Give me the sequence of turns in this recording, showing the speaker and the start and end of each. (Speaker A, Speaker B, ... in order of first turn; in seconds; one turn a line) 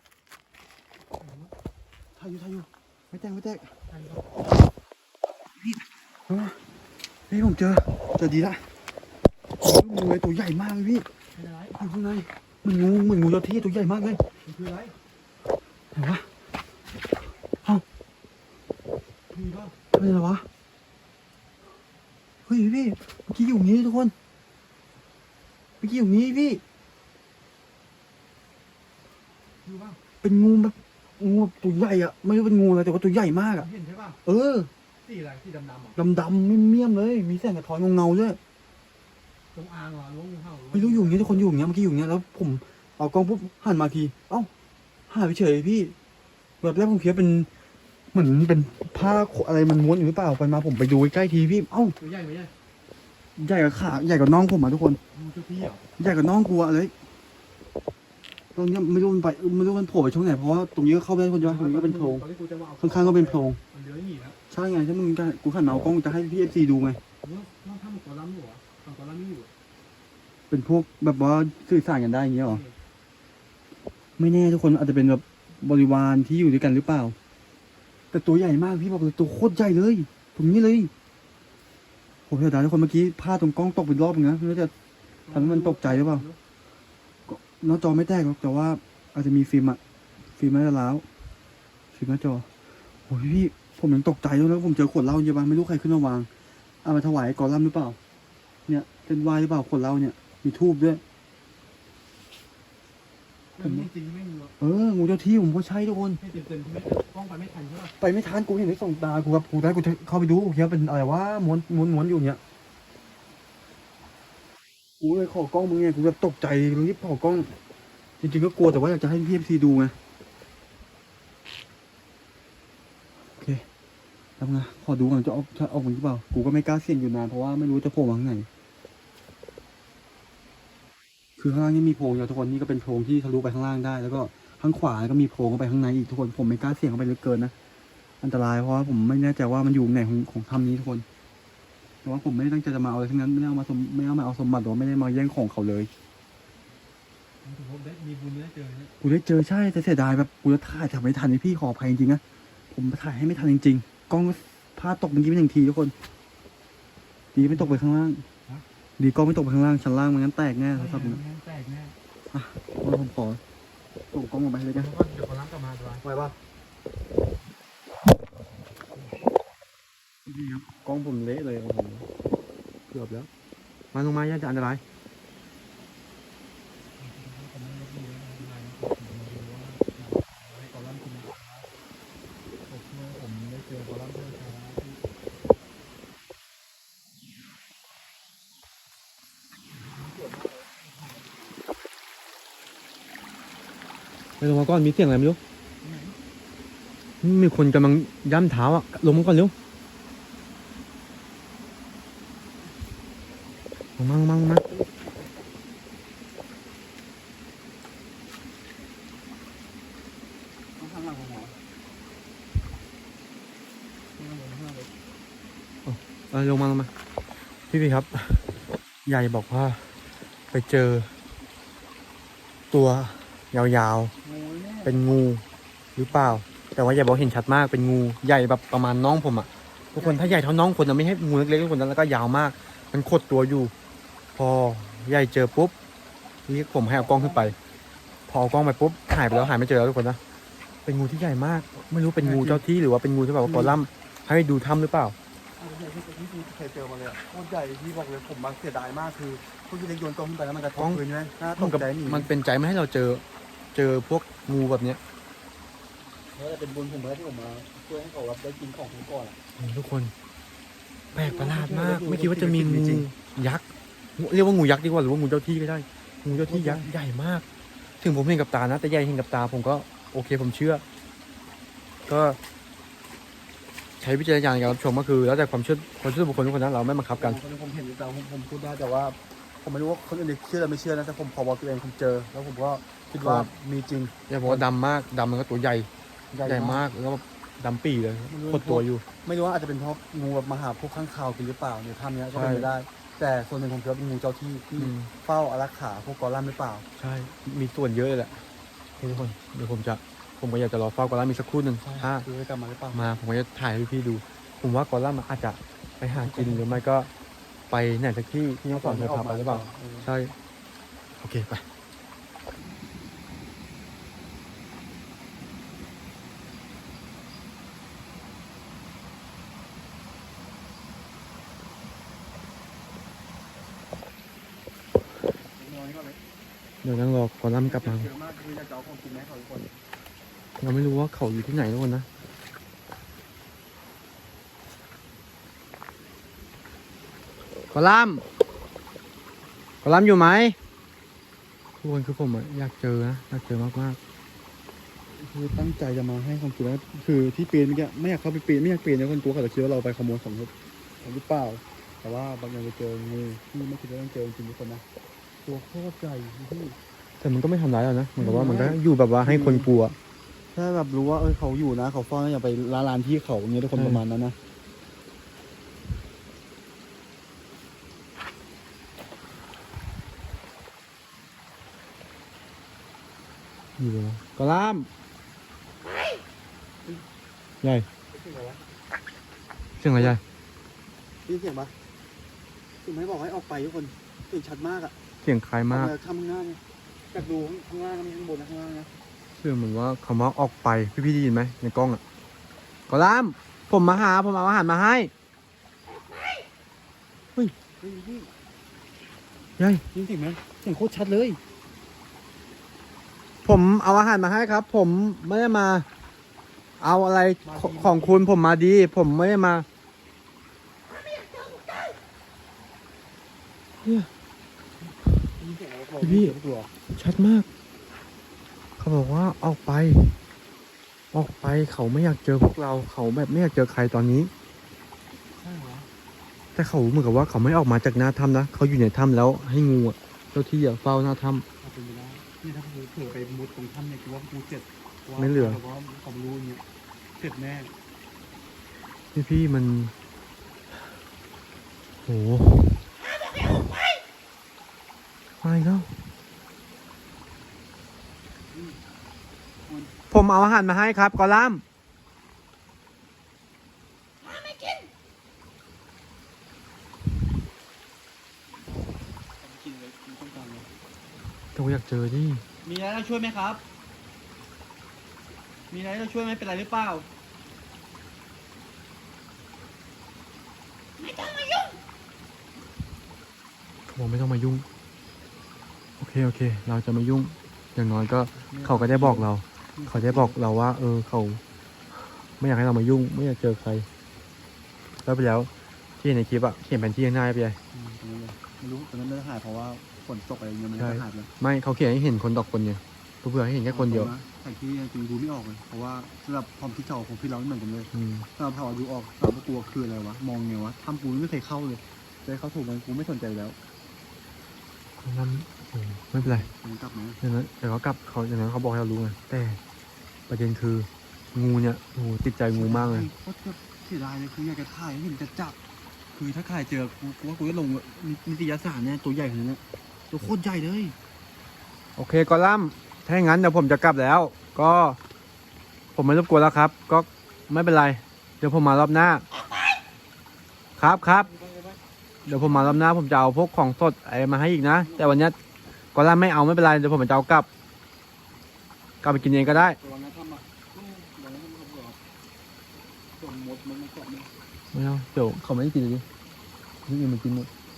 Speaker A: 2.1-3.8
Speaker A: 6.3-6.6
Speaker A: 7.3-8.7
Speaker A: 9.5-11.1
Speaker B: 11.3-11.7
Speaker A: 11.7-14.9
Speaker A: 15.9-16.5
Speaker A: 19.3-20.5
Speaker A: 22.4-24.1
Speaker A: 25.8-26.6
Speaker A: 29.9-33.7
Speaker B: 33.6-34.2
Speaker A: 34.2-34.7
Speaker B: 35.0-36.0
Speaker A: 35.9-38.4
Speaker B: 39.5-41.5
Speaker A: 40.7-44.5
Speaker A: 45.1-46.0
Speaker A: 46.6-47.5
Speaker A: 48.1-52.0
Speaker B: 52.0-52.5
Speaker A: 53.4-55.0
Speaker B: 55.1-55.8
Speaker A: 55.9-56.9
Speaker A: 58.5-62.2
Speaker B: 61.4-64.3
Speaker A: 62.8-63.6
Speaker A: 64.5-67.0
Speaker B: 67.2-68.6
Speaker A: 68.8-69.5
Speaker A: 70.5-72.7
Speaker A: 74.2-77.2
Speaker A: 78.1-80.9
Speaker A: 82.3-84.7
Speaker B: 85.3-86.3
Speaker A: 85.3-86.3
Speaker A: 87.3-89.8
Speaker A: 90.3-91.0
Speaker A: 91.9-92.5
Speaker A: 93.0-96.3
Speaker A: 96.8-98.0
Speaker A: 98.7-101.0
Speaker B: 103.6-104.5
Speaker A: 103.6-103.9
Speaker A: 104.6-106.2
Speaker B: 106.2-107.9
Speaker A: 108.0-112.4
Speaker A: 115.0-117.5
Speaker A: 118.2-120.0
Speaker A: 123.4-123.6
Speaker A: 124.4-128.5
Speaker A: 131.4-137.5
Speaker A: 138.2-141.1
Speaker A: 142.0-145.9
Speaker A: 147.4-155.9
Speaker A: 157.3-158.3
Speaker B: 157.4-157.8
Speaker A: 159.0-161.2
Speaker B: 160.7-161.9
Speaker A: 162.3-163.4
Speaker A: 164.1-164.9
Speaker B: 164.7-166.0
Speaker A: 166.0-166.3
Speaker B: 170.3-170.6
Speaker A: 170.7-172.1
Speaker B: 172.9-173.3
Speaker B: 173.9-174.8
Speaker A: 177.0-181.7
Speaker A: 182.7-185.0
Speaker A: 189.9-190.9
Speaker B: 194.4-195.4
Speaker A: 195.8-196.2
Speaker B: 197.2-199.5
Speaker B: 204.0-204.6
Speaker A: 204.7-205.2
Speaker A: 210.8-211.6
Speaker A: 214.2-214.9
Speaker B: 215.8-216.9
Speaker B: 217.7-219.9
Speaker B: 220.5-221.1
Speaker B: 222.7-224.1
Speaker A: 224.2-225.0
Speaker B: 224.8-225.4
Speaker B: 225.9-233.7
Speaker A: 229.9-230.5
Speaker B: 234.3-235.7
Speaker B: 236.5-237.6
Speaker A: 236.9-237.5
Speaker B: 238.3-240.2
Speaker B: 240.8-245.1
Speaker A: 242.2-242.6
Speaker A: 243.4-243.8
Speaker A: 245.6-252.3
Speaker B: 250.8-251.0
Speaker B: 251.6-253.2
Speaker B: 253.7-255.0
Speaker A: 256.4-259.4
Speaker B: 259.6-260.1
Speaker A: 261.1-263.1
Speaker B: 261.1-263.6
Speaker B: 264.2-267.4
Speaker A: 266.3-266.9
Speaker B: 268.0-270.8
Speaker B: 272.1-272.4
Speaker B: 274.0-277.4
Speaker A: 277.1-284.6
Speaker B: 283.2-283.5
Speaker B: 284.3-285.9
Speaker A: 286.3-286.8
Speaker B: 286.4-289.0
Speaker A: 288.3-296.9
Speaker B: 292.3-292.7
Speaker B: 294.8-295.1
Speaker B: 297.0-298.4
Speaker B: 299.0-302.3
Speaker A: 301.8-303.1
Speaker B: 302.9-307.1
Speaker A: 306.1-306.8
Speaker B: 307.7-310.3
Speaker A: 308.7-310.1
Speaker B: 311.2-311.6
Speaker A: 325.3-326.2
Speaker B: 326.8-328.1
Speaker A: 327.6-329.8
Speaker B: 330.6-332.1
Speaker B: 337.7-338.2
Speaker B: 339.8-340.6
Speaker B: 341.8-344.0
Speaker A: 345.2-354.8
Speaker A: 355.4-356.8
Speaker B: 357.2-359.9
Speaker A: 358.2-359.7
Speaker A: 360.5-364.4
Speaker B: 363.8-364.0
Speaker B: 373.8-374.9
Speaker B: 377.6-377.9
Speaker A: 378.1-378.6
Speaker B: 379.8-380.2
Speaker A: 381.2-381.7
Speaker A: 382.8-384.9
Speaker B: 385.2-385.9
Speaker A: 385.7-386.6
Speaker A: 387.1-388.9
Speaker B: 389.3-392.0
Speaker B: 392.9-395.1
Speaker A: 397.8-398.3
Speaker B: 399.6-399.8
Speaker A: 399.9-401.4
Speaker B: 403.4-405.9
Speaker B: 406.8-409.6
Speaker A: 407.4-408.3
Speaker B: 413.8-414.1
Speaker A: 415.4-416.7
Speaker B: 416.0-416.3
Speaker B: 416.9-417.5
Speaker B: 418.8-420.2
Speaker B: 421.1-424.3
Speaker A: 425.4-425.9
Speaker B: 426.5-431.4
Speaker A: 431.6-436.6
Speaker B: 435.2-435.6
Speaker A: 437.2-437.7
Speaker B: 439.1-439.9
Speaker B: 442.1-442.9
Speaker B: 445.4-446.1
Speaker A: 448.5-448.8
Speaker A: 449.6-449.9
Speaker B: 450.1-451.6
Speaker A: 458.6-460.7
Speaker B: 461.5-462.4
Speaker A: 462.6-463.6
Speaker A: 465.7-467.1
Speaker B: 473.9-474.6
Speaker B: 476.0-481.4
Speaker A: 478.5-480.4
Speaker B: 482.4-483.9
Speaker B: 485.0-487.6
Speaker A: 487.7-491.3
Speaker B: 490.8-494.1
Speaker A: 493.7-503.6
Speaker B: 497.9-498.3
Speaker B: 505.0-506.5
Speaker A: 506.2-507.2
Speaker B: 507.2-509.6
Speaker B: 510.3-513.1
Speaker A: 512.5-515.6
Speaker A: 516.1-520.9
Speaker B: 522.0-525.0
Speaker B: 525.9-529.2
Speaker B: 530.8-531.3
Speaker A: 530.8-532.8
Speaker B: 532.2-535.4
Speaker A: 534.8-535.1
Speaker B: 535.9-537.5
Speaker B: 539.0-539.8
Speaker A: 539.2-542.0
Speaker A: 543.2-544.3
Speaker B: 544.7-546.0
Speaker B: 546.9-547.5